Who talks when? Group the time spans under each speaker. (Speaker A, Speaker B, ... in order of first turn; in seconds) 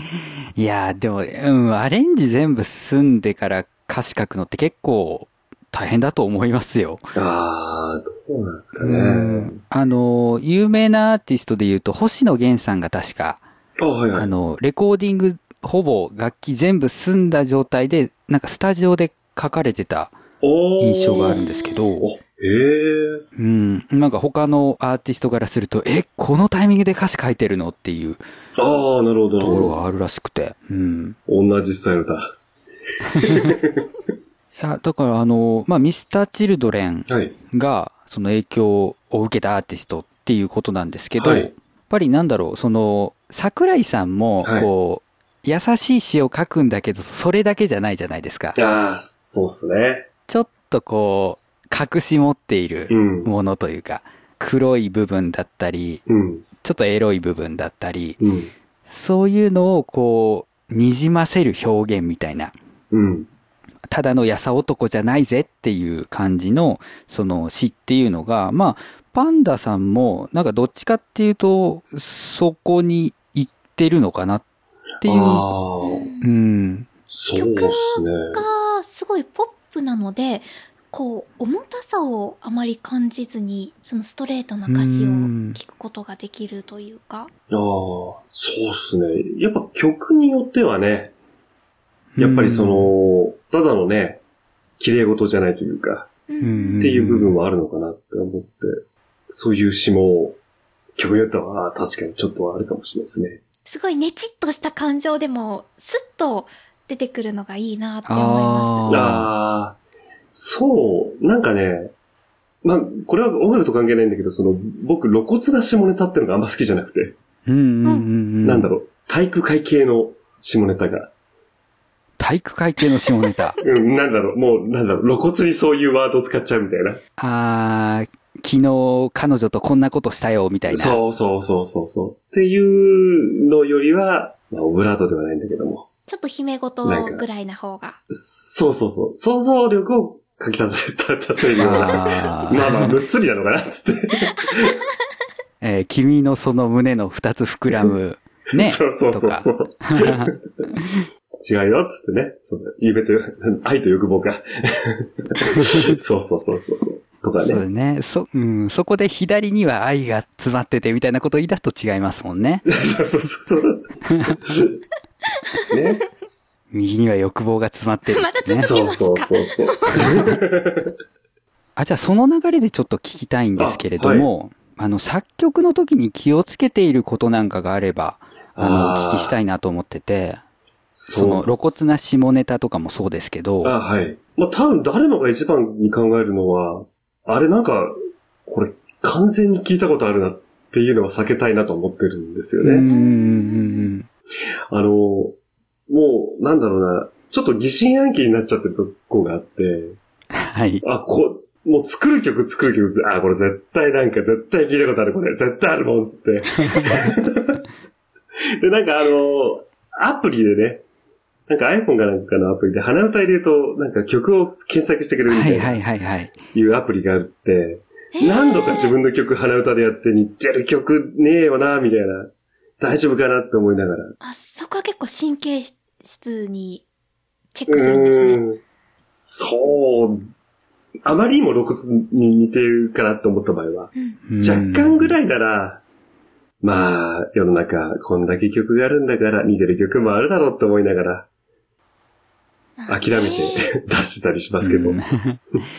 Speaker A: 0.6-7.1, 8.8-13.4, 14.1-20.1, 20.8-22.1, 23.4-28.2, 29.4-31.2, 33.2-33.5, 34.6-48.6, 50.3-56.1, 56.6-58.2, 58.9-62.5, 63.9-74.4, 75.0-75.5, 76.2-76.9, 84.7-85.6, 92.2-92.9, 96.4-97.3, 108.1-109.3, 117.5-118.7, 122.2-123.6, 127.2-131.0, 141.6-143.0, 145.6-151.0, 155.6-155.9, 157.4-162.7, 164.1-164.4, 166.7-168.7, 169.9-170.4, 171.8-180.4, 181.1-183.8, 192.6-194.1, 200.4-200.8, 206.7-207.0, 215.3-216.3, 234.3-235.2, 244.6-245.4
Speaker B: 7.2-9.6, 13.8-14.3, 20.4-21.4, 22.0-23.2, 28.6-29.8, 31.3-32.4, 33.2-33.9, 37.1-37.3, 41.2-41.5, 44.4-44.7, 48.6-50.1, 52.9-53.3, 56.1-56.5, 58.2-58.5, 62.9-63.3, 75.0-76.1, 77.1-78.4, 87.5-91.1, 92.2-94.2, 94.8-96.1, 96.8-100.4, 101.0-103.4, 108.9-109.8, 110.3-111.9, 112.6-117.2, 118.4-121.1, 123.6-127.0, 130.7-135.9, 136.8-137.2, 138.1-144.8, 148.5-150.4, 151.4-157.6, 162.7-163.8, 164.4-164.8, 165.7-166.0, 168.6-170.9, 173.6-174.3, 178.6-179.4, 180.9-181.8, 183.6-187.9, 188.5-192.8, 194.7-195.4, 195.9-200.0, 200.8-207.6, 208.6-210.8, 211.5-215.8, 216.5-224.1, 227.7-230.2, 231.1-235.8, 236.6-241.3, 242.9-245.0
Speaker C: 21.1-22.0, 75.8-76.3, 77.4-87.3, 96.3-96.9, 103.7-109.0, 136.1-138.0, 165.5-166.0, 168.1-170.3, 192.9-193.9, 218.1-218.9, 224.2-226.9, 227.5-228.4, 242.8-243.7